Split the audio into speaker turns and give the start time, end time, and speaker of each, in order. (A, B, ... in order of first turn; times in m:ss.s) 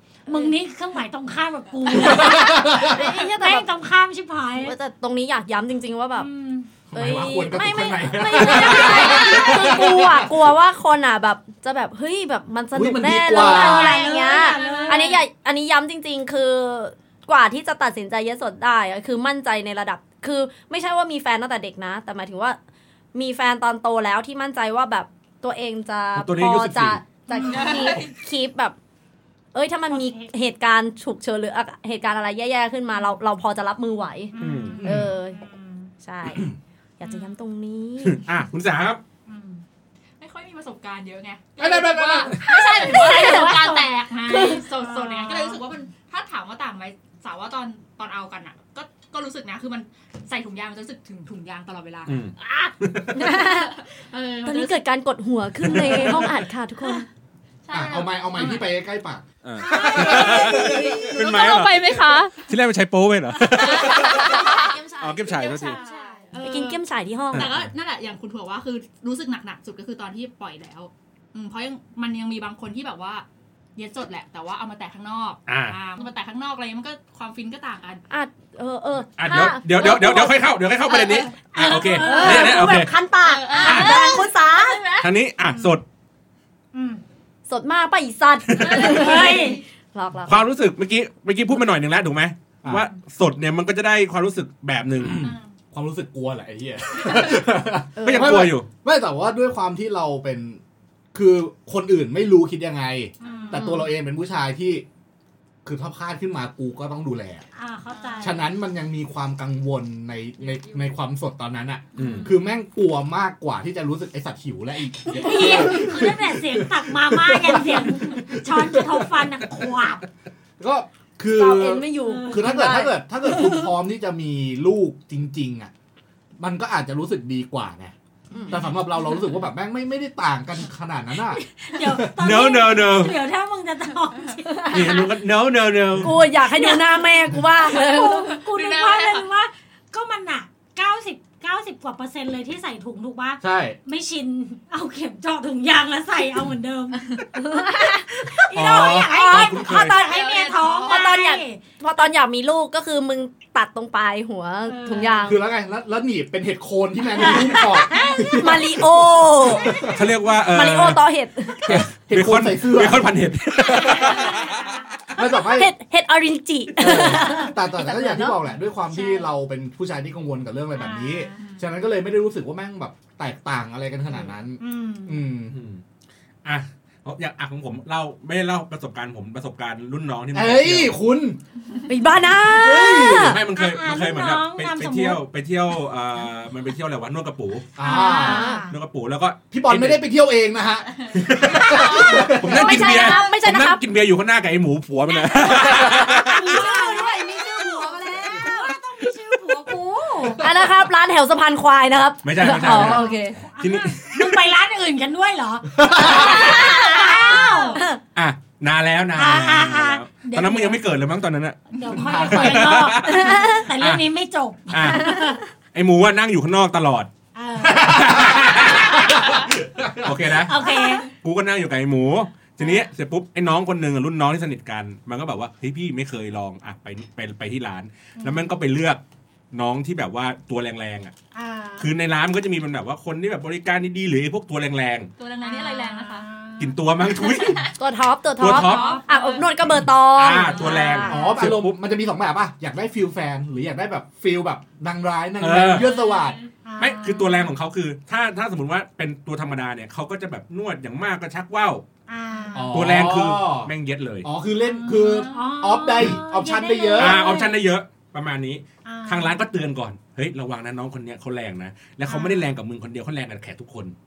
0:00.3-0:04.8 A
0:01.9-0:03.0 B
0:02.8-0:03.7 C
0:04.6-0:06.3 C
0:06.2-0:06.7 A
0:06.9-0:10.4 B
0:06.9-0:22.6 C
0:08.5-0:09.8 D
0:09.1-0:09.3 A
0:12.7-0:14.0 B
0:13.3-0:15.2 A
0:14.1-0:15.2 D
0:23.1-0:28.8 C
0:26.1-0:27.0 E
0:27.3-0:28.0 A
0:27.3-0:28.2 D
0:29.5-0:35.4 C
0:29.9-0:30.3 A
0:34.3-0:35.9 A
0:34.4-0:34.8 E
0:34.8-0:35.1 B
0:36.0-0:36.5 C
0:37.0-0:38.2 C
0:38.0-0:39.0 E
0:39.3-0:39.6 A
0:40.2-0:52.2 D
0:41.6-0:42.4 B
0:42.5-0:44.6 C
0:42.5-0:45.6 A
0:52.1-0:53.2 E
0:52.5-0:52.7 A
0:53.1-0:53.8 C
0:53.4-0:54.8 D
0:54.4-0:57.0 C
0:55.6-0:57.0 D
0:57.6-0:58.7 D
0:57.7-1:00.9 B
0:59.4-1:05.8 E
0:59.6-1:01.1 A
0:59.7-1:02.5 D
1:01.3-1:01.9 C
1:03.5-1:06.8 D
1:03.7-1:05.4 C
1:05.6-1:06.3 A
1:06.4-1:07.5 C
1:07.3-1:13.2 D
1:07.3-1:07.7 E
1:13.8-1:18.0 D
1:15.5-1:15.7 E
1:18.1-1:20.4 C
1:19.2-1:22.9 E
1:20.9-1:22.4 D
1:21.5-1:22.8 A
1:21.6-1:24.8 C
1:23.2-1:25.1 D
1:23.6-1:24.2 A
1:23.6-1:24.0 E
1:25.0-1:25.8 E
1:25.5-1:25.8 A
1:26.7-1:27.0 A
1:27.5-1:30.4 C
1:28.6-1:29.6 D
1:28.7-1:29.6 A
1:30.2-1:35.3 E
1:35.0-1:40.6 B
1:35.2-1:35.5 D
1:37.0-1:37.4 D
1:38.0-1:38.5 C
1:38.0-1:38.7 E
1:41.1-1:44.8 B
1:43.2-1:43.8 A
1:43.2-1:43.5 D
1:43.5-1:43.9 C
1:45.6-1:47.4 B
1:47.6-1:48.4 A
1:47.9-1:48.4 D
1:48.2-1:59.5 B
1:50.4-1:50.8 D
1:52.0-1:52.3 D
1:55.1-2:00.0 A
2:00.6-2:05.7 B
2:01.3-2:03.7 C
2:02.0-2:02.6 A
2:06.4-2:07.9 B
2:08.3-2:08.6 C
2:08.5-2:12.2 B
2:11.3-2:15.1 A
2:12.2-2:13.2 E
2:14.5-2:15.0 C
2:14.7-2:16.2 E
2:16.0-2:18.3 C
2:16.5-2:31.6 A
2:18.3-2:19.2 D
2:23.4-2:23.8 B
2:27.4-2:30.1 C
2:28.5-2:30.0 E
2:29.9-2:31.0 D
2:30.8-2:35.4 C
2:34.6-2:35.3 A
2:35.2-2:40.0 B
2:37.2-2:39.9 C
2:37.2-2:38.6 A
2:39.8-2:41.0 E
2:40.5-2:41.8 C
2:41.6-2:43.1 B
2:41.6-2:44.7 E
2:43.6-2:44.9 A
2:45.2-2:45.7 B
2:45.2-2:48.4 C
2:46.8-2:55.5 B
2:48.9-2:49.3 A
2:50.7-2:51.4 A
2:51.4-2:51.6 D
2:54.6-2:55.2 A
2:55.5-2:55.8 E
2:56.4-3:01.0 E
3:00.3-3:01.4 B
3:01.9-3:03.4 C
3:02.5-3:03.4 B
3:03.0-3:07.7 E
3:03.5-3:05.2 A
3:07.8-3:08.6 B
3:07.8-3:08.7 A
3:08.0-3:08.7 C
3:08.7-3:10.0 E
3:09.5-3:12.8 B
3:11.0-3:13.4 D
3:11.3-3:16.6 E
3:11.7-3:13.8 C
3:15.2-3:20.5 A
3:15.6-3:18.7 C
3:20.2-3:23.4 C
3:22.2-3:23.1 E
3:22.4-3:27.9 A
3:23.6-3:24.4 E
3:25.7-3:26.7 B
3:25.9-3:28.0 C
3:28.1-3:34.0 E
3:29.1-3:30.8 A
3:31.7-3:35.4 A
3:31.9-3:32.7 B
3:33.0-3:33.7 C
3:34.7-3:37.1 E
3:35.1-3:35.4 C
3:37.3-3:39.3 A
3:37.6-3:39.1 E
3:37.8-3:40.3 B
3:40.0-3:49.0 E
3:40.3-3:41.1 A
3:40.6-3:41.0 D
3:48.2-3:48.5 A
3:49.5-3:51.1 E
3:51.3-3:51.9 A
3:51.8-3:55.1 E
3:55.2-3:56.3 D
3:55.4-3:56.8 A
3:56.6-3:57.7 E
3:57.1-3:57.8 D
3:57.8-4:01.2 C
3:58.4-3:59.0 E
3:58.5-3:59.5 D
3:58.6-3:59.4 A
4:00.0-4:01.8 E
4:00.4-4:01.2 D
4:00.7-4:01.5 A
4:01.1-4:06.4 B
4:05.4-4:05.9 E
4:05.7-4:06.5 D
4:06.6-4:07.5 A
4:06.8-4:11.8 E
4:12.1-4:12.8 A
4:12.5-4:13.7 B
4:12.7-4:14.3 E
4:14.2-4:17.2 B
4:14.8-4:17.6 A
4:14.8-4:15.6 D
4:16.9-4:23.9 E
4:18.8-4:19.4 A
4:22.0-4:22.5 A